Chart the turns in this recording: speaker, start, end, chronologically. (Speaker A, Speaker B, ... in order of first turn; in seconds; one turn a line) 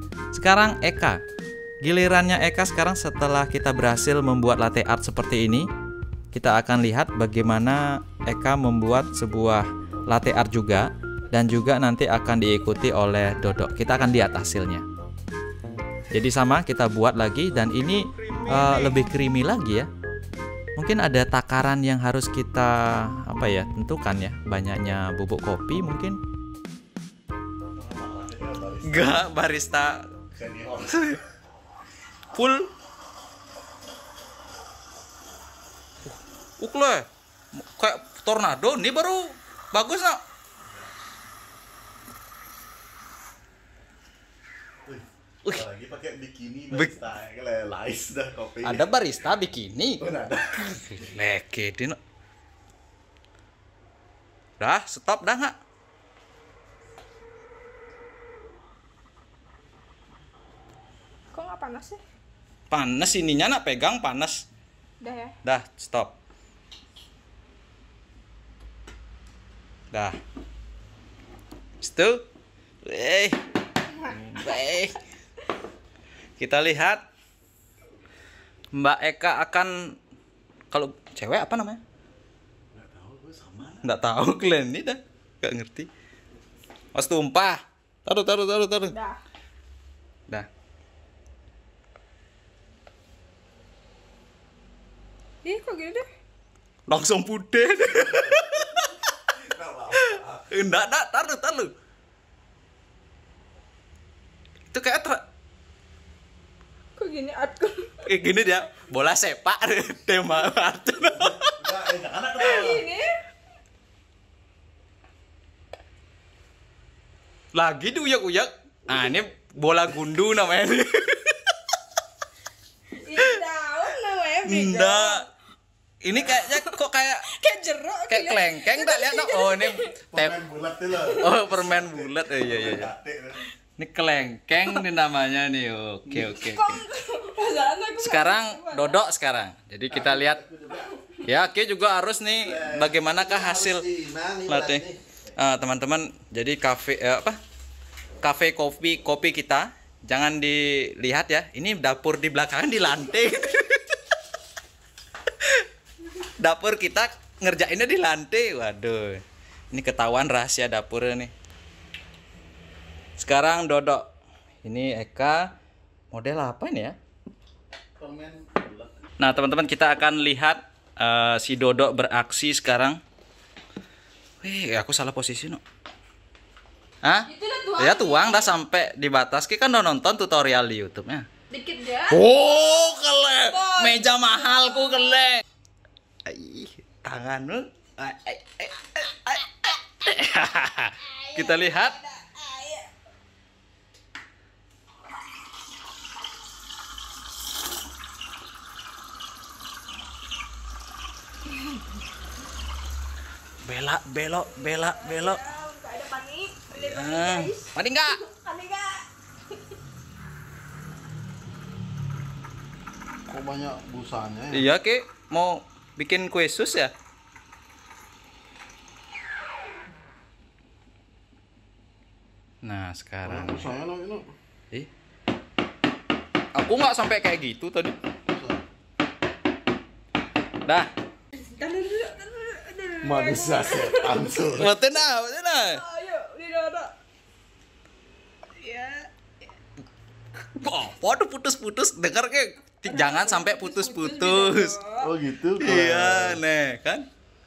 Speaker A: 0.3-1.2
Speaker A: 1.8-5.7
Speaker A: 6.3-14.8
Speaker B: 12.8-14.4
Speaker A: 16.1-19.9
Speaker A: 20.8-26.2
Speaker C: 27.8-29.2
Speaker A: 28.8-30.1
Speaker C: 30.3-31.2
Speaker A: 30.9-31.2
Speaker A: 32.3-32.7
Speaker A: 36.6-40.2
Speaker C: 44.9-48.9
Speaker A: 48.6-50.0
Speaker C: 50.0-51.0
Speaker A: 50.8-52.0
Speaker A: 54.6-55.6
Speaker B: 61.3-62.0
Speaker A: 62.7-64.5
Speaker B: 65.0-65.3
Speaker A: 65.4-66.2
Speaker A: 69.9-70.2
Speaker A: 71.8-72.3
Speaker A: 72.8-73.4
Speaker A: 74.0-75.0
Speaker A: 76.4-77.0
Speaker A: 78.7-80.0
Speaker A: 80.7-81.8
Speaker C: 82.7-83.8
Speaker A: 83.8-85.9
Speaker A: 86.9-89.0
Speaker B: 88.9-89.2
Speaker B: 95.4-96.1
Speaker A: 96.9-99.0
Speaker C: 99.3-100.5
Speaker A: 99.9-101.7
Speaker A: 104.7-105.2
Speaker B: 107.0-107.9
Speaker A: 108.0-111.6
Speaker C: 111.2-112.9
Speaker B: 112.4-113.2
Speaker A: 117.5-121.5
Speaker B: 123.0-125.3
Speaker A: 124.4-125.3
Speaker A: 126.0-127.3
Speaker B: 126.3-129.9
Speaker A: 128.1-130.4
Speaker C: 130.1-133.4
Speaker A: 131.0-132.9
Speaker A: 133.8-136.8
Speaker B: 136.1-139.0
Speaker A: 138.0-140.4
Speaker C: 139.9-141.0
Speaker A: 141.2-143.9
Speaker C: 142.4-145.0
Speaker A: 144.5-144.8
Speaker A: 145.4-147.4
Speaker A: 148.2-154.0
Speaker A: 155.4-161.3
Speaker A: 163.2-164.1
Speaker A: 164.6-165.5
Speaker A: 166.1-167.0
Speaker C: 168.0-168.9
Speaker A: 169.2-173.0
Speaker A: 174.4-175.6
Speaker A: 177.0-181.3
Speaker B: 177.3-178.5
Speaker B: 181.5-182.3
Speaker A: 182.1-185.4
Speaker C: 182.4-183.2
Speaker B: 183.5-185.0
Speaker A: 186.3-192.0
Speaker B: 191.2-192.9
Speaker A: 203.6-205.4
Speaker B: 204.5-209.6
Speaker A: 206.7-208.2
Speaker C: 213.3-214.7
Speaker A: 214.5-216.9
Speaker A: 222.6-223.7
Speaker C: 223.2-224.3
Speaker A: 226.5-227.9
Speaker C: 228.3-228.6
Speaker A: 230.6-230.9
Speaker B: 231.4-234.5
Speaker C: 233.0-234.7
Speaker A: 234.6-235.8
Speaker B: 235.7-236.9
Speaker B: 238.6-239.1
Speaker A: 240.4-244.8
Speaker B: 242.8-245.1
Speaker C: 245.0-246.4
Speaker A: 245.6-247.1